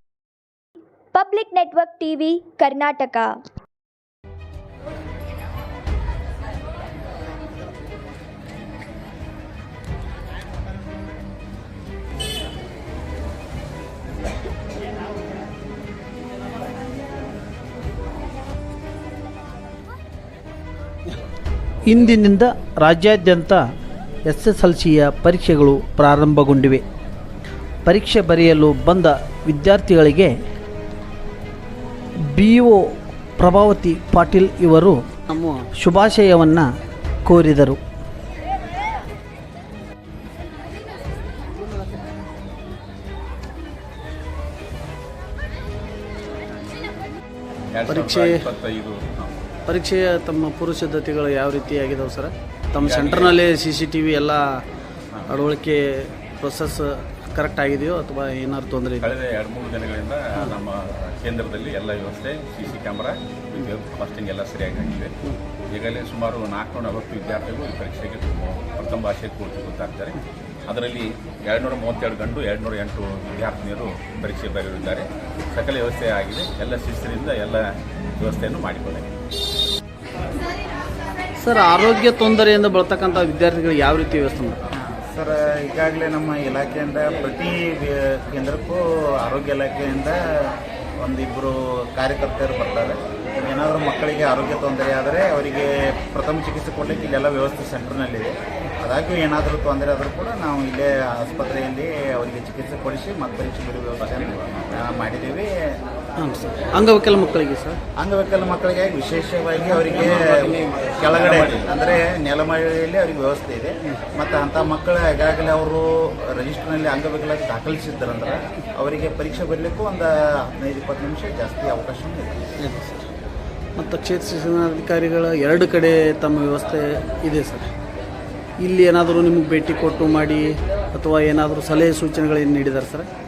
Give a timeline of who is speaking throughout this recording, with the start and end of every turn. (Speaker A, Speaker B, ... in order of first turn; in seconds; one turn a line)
Speaker A: 1.1-3.4
Speaker B: 21.9-23.6
Speaker B: 24.2-26.8
Speaker B: 27.8-30.3
Speaker B: 32.2-36.7
Speaker B: 37.2-37.8
Speaker C: 47.7-49.3
Speaker B: 47.9-48.4
Speaker B: 49.7-54.4
Speaker C: 52.7-53.5
Speaker B: 55.3-59.0
Speaker C: 59.0-77.6
Speaker C: 78.2-79.1
Speaker B: 81.4-84.6
Speaker D: 84.8-105.5
Speaker C: 104.0-104.8
Speaker B: 106.2-107.8
Speaker D: 108.0-122.5
Speaker C: 109.8-111.7
Speaker B: 122.6-123.1
Speaker B: 123.8-127.7
Speaker B: 128.6-133.1